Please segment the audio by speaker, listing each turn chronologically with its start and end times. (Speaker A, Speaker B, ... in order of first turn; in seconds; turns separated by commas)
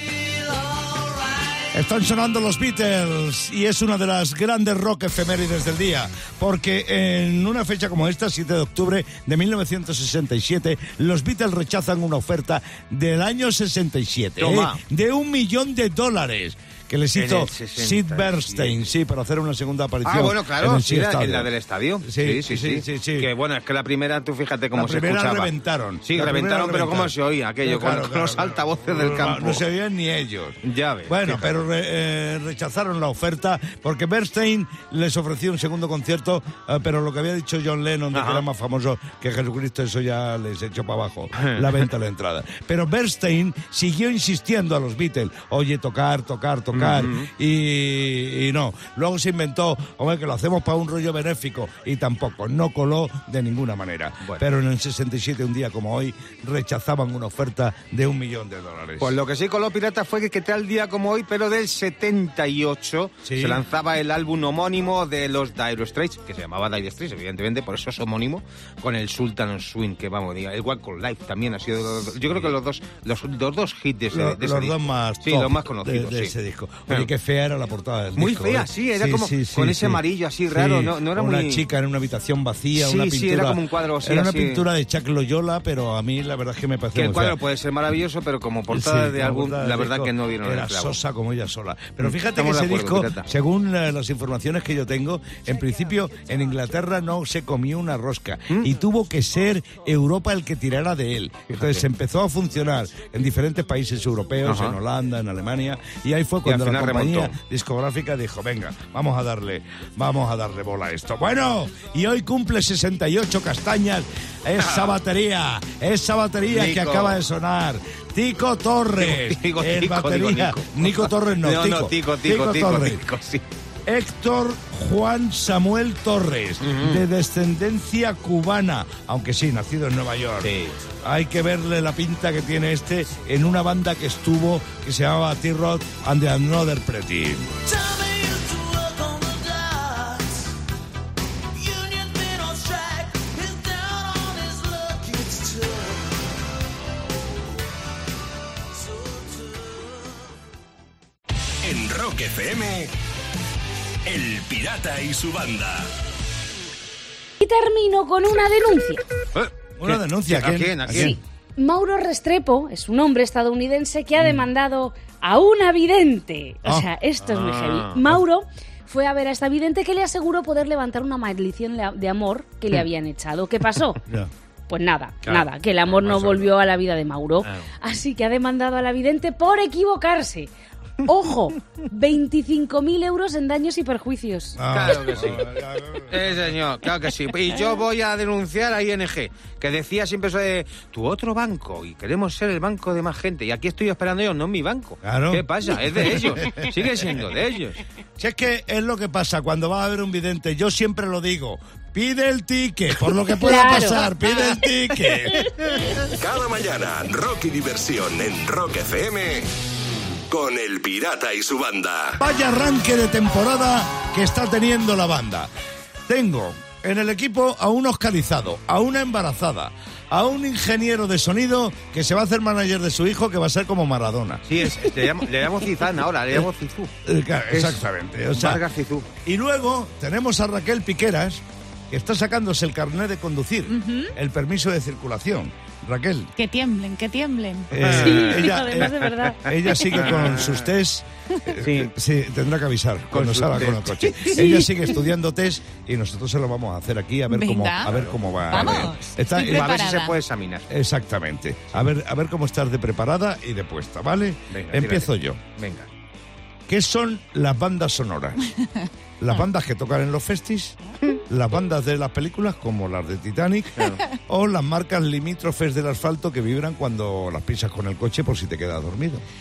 Speaker A: 1.7-21.5, Speaker B: 14.4-14.8, Speaker B: 17.1-18.8, Speaker B: 20.0-25.5, Speaker A: 22.0-23.3, Speaker A: 24.7-59.2, Speaker B: 26.0-29.6, Speaker B: 30.6-31.5, Speaker B: 38.1-38.4, Speaker B: 41.4-41.9, Speaker B: 46.7-47.3, Speaker B: 59.0-76.3, Speaker A: 63.2-63.6, Speaker A: 74.1-87.4, Speaker B: 78.2-81.6, Speaker B: 82.7-84.6, Speaker B: 86.9-91.0, Speaker A: 88.7-123.0, Speaker B: 92.0-93.3, Speaker B: 101.5-101.8, Speaker B: 104.4-104.8, Speaker B: 106.4-107.3, Speaker B: 114.6-114.9, Speaker B: 116.5-117.2, Speaker B: 119.0-123.4, Speaker A: 123.9-137.8, Speaker B: 126.6-127.0, Speaker B: 130.4-130.8, Speaker C: 151.6-152.9, Speaker C: 154.0-155.9, Speaker D: 157.4-159.0, Speaker B: 159.3-161.2, Speaker A: 159.8-161.2, Speaker D: 161.0-174.0, Speaker B: 167.2-168.0, Speaker D: 174.7-180.5, Speaker B: 175.2-176.5, Speaker D: 181.0-184.6, Speaker A: 184.6-186.5, Speaker B: 184.7-197.8, Speaker A: 195.0-196.7, Speaker A: 198.2-205.6, Speaker D: 203.4-204.1, Speaker C: 206.1-209.5, Speaker C: 210.3-212.2, Speaker A: 212.2-215.5, Speaker A: 216.1-224.4, Speaker B: 224.5-226.9, Speaker A: 227.0-228.6, Speaker B: 227.5-227.8, Speaker B: 228.3-229.1, Speaker A: 229.2-236.3, Speaker E: 233.7-234.1, Speaker E: 236.3-237.8, Speaker A: 237.7-249.8, Speaker B: 237.8-238.4, Speaker D: 237.9-240.0, Speaker B: 239.9-240.7, Speaker B: 241.6-241.9, Speaker B: 243.1-244.7, Speaker E: 247.3-250.2, Speaker B: 248.0-248.8, Speaker B: 249.4-250.7, Speaker A: 250.7-255.4, Speaker B: 254.5-255.9, Speaker A: 256.7-258.4, Speaker A: 259.2-260.8, Speaker A: 261.3-269.2